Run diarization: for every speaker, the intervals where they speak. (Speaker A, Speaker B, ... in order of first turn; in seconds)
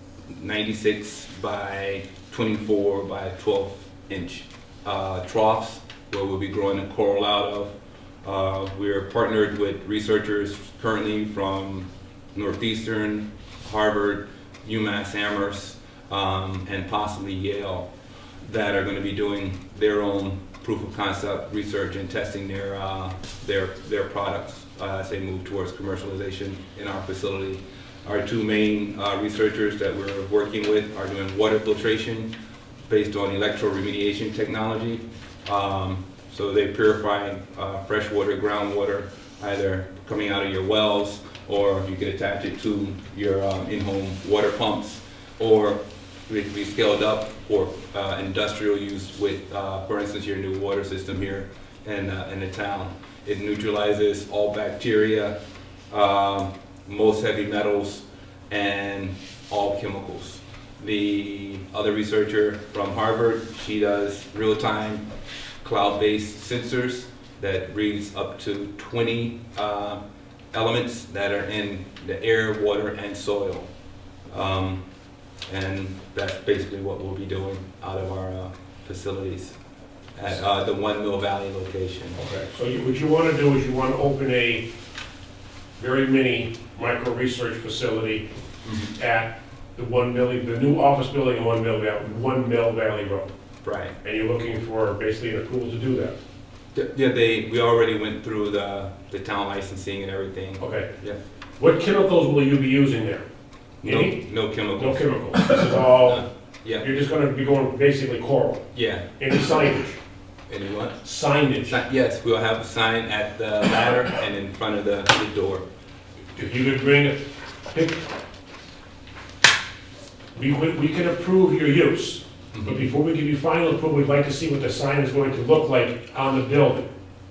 Speaker A: 0.3-7.7, 8.2-17.9, 18.4-32.3, 32.9-55.3, 55.9-65.0, 65.6-73.7, 74.3-74.8, 75.5-79.6, 80.2-82.2, 88.6-88.9, 93.6-93.9, 96.7-101.2, 103.8-106.8, 108.7-109.0, 110.5-111.0, 111.6-115.6, 122.5-122.8
Speaker B: 82.2-84.7, 85.8-88.2, 88.9-93.3, 94.0-96.1, 100.6-100.9, 101.6-103.2, 103.8-104.2, 104.7-106.2, 106.8-108.6, 109.2-110.0, 111.0-111.8, 116.3-117.2, 117.7-118.0, 120.3-126.9